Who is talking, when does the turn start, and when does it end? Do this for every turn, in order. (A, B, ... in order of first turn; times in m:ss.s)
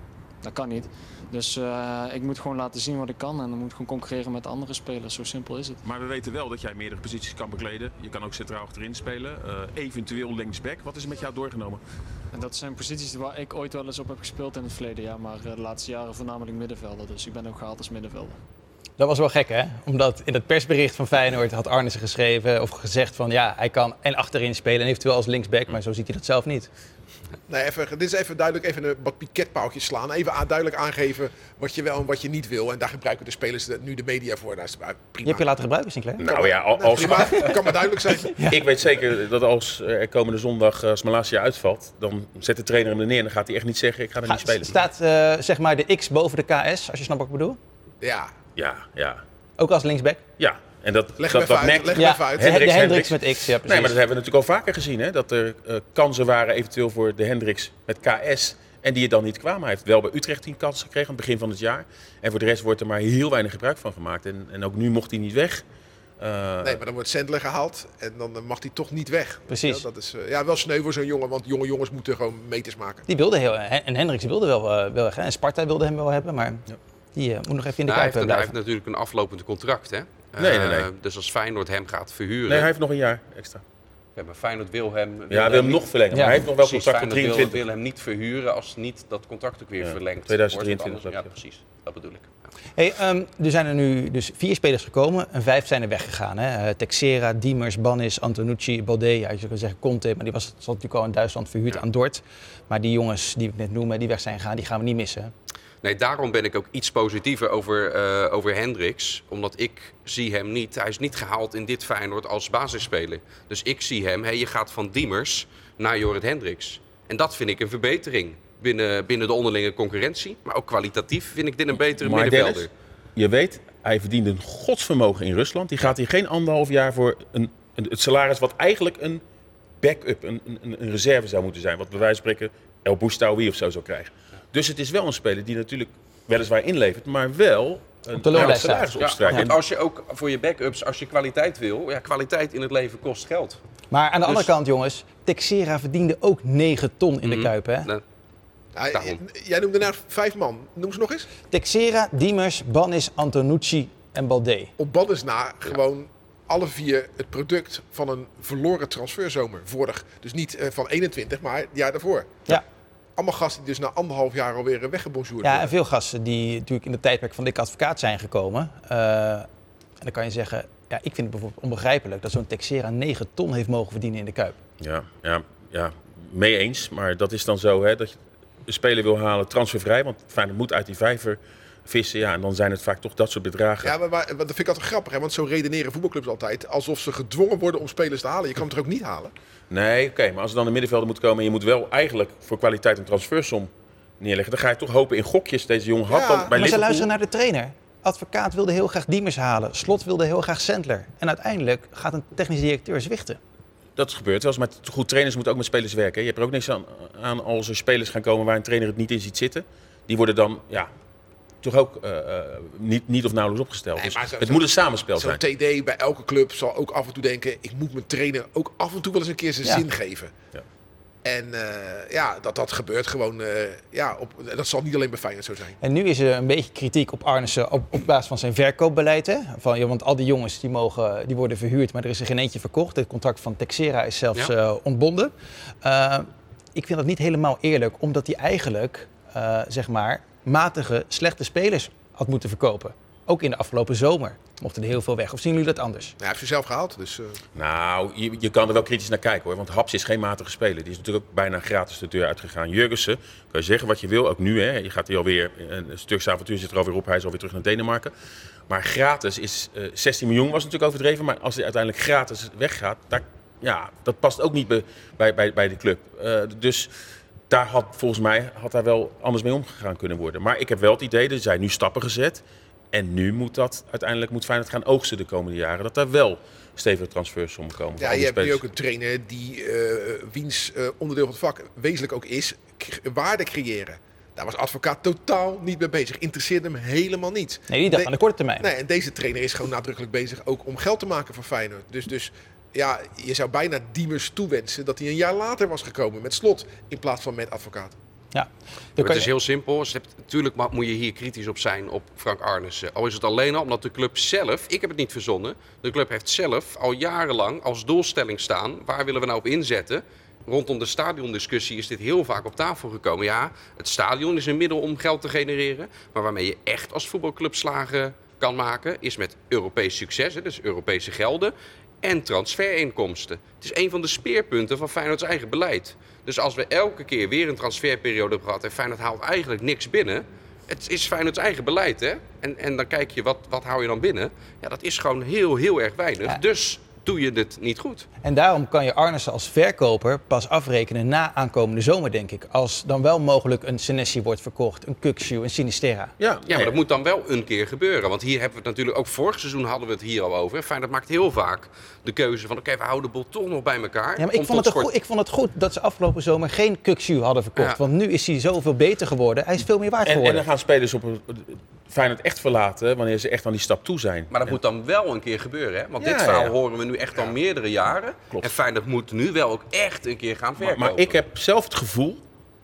0:00.4-0:05.8 A
0:05.8-0:11.8 B
0:12.3-0:18.4 A
0:19.0-0:26.7 C
0:27.5-0:35.4 D
0:35.2-0:36.2 C
0:36.2-0:37.6 B
0:36.2-0:38.4 D
0:38.4-0:44.7 B
0:44.2-0:47.6 C
0:48.0-0:48.3 D
0:48.6-0:49.2 B
0:49.6-0:50.2 C
0:50.4-1:05.6 B
0:51.2-0:52.6 D
0:52.0-0:54.0 C
1:06.2-1:06.8 B
1:06.6-1:13.0 D
1:09.5-1:09.8 C
1:13.1-1:16.6 C
1:17.1-1:18.5 C
1:17.9-1:22.7 E
1:20.4-1:20.9 B
1:22.5-1:23.6 B
1:24.2-1:32.3 E
1:25.3-1:27.6 B
1:29.8-1:31.3 B
1:32.8-1:45.3 C
1:45.8-2:02.7 E
2:02.0-2:09.2 B
2:09.8-2:19.6 B
2:18.2-2:19.4 C
2:18.3-2:23.6 E
2:23.9-2:27.9 C
2:27.2-2:28.0 E
2:28.8-2:31.3 D
2:28.9-2:29.2 E
2:31.5-2:34.7 C
2:34.8-2:42.6 D
2:43.2-2:45.7 D
2:45.4-2:49.5 C
2:50.0-2:54.6 C
2:54.8-3:03.9 B
3:03.8-3:09.3 D
3:09.7-3:17.1 B
3:16.1-3:16.5 D
3:16.5-3:23.4 C
3:24.0-3:30.9 B
3:31.6-3:35.4 B
3:34.0-3:40.3 D
3:41.2-3:45.8 D
3:45.8-3:55.3 C
3:55.8-4:06.1 C
4:06.2-4:07.4 D
4:07.5-4:18.1 B
4:18.7-4:26.9 B
4:27.5-4:38.6 B
4:38.0-4:58.0 D
4:47.7-4:48.6 C
4:58.3-4:59.3 C
4:59.0-5:38.1 E
5:38.2-5:46.1 C
5:46.2-5:46.8 B
5:46.5-5:54.9 E
5:54.2-6:00.4 C
6:00.0-6:04.6 B
6:04.3-6:11.2 E
6:06.0-6:06.5 B
6:10.6-6:12.2 B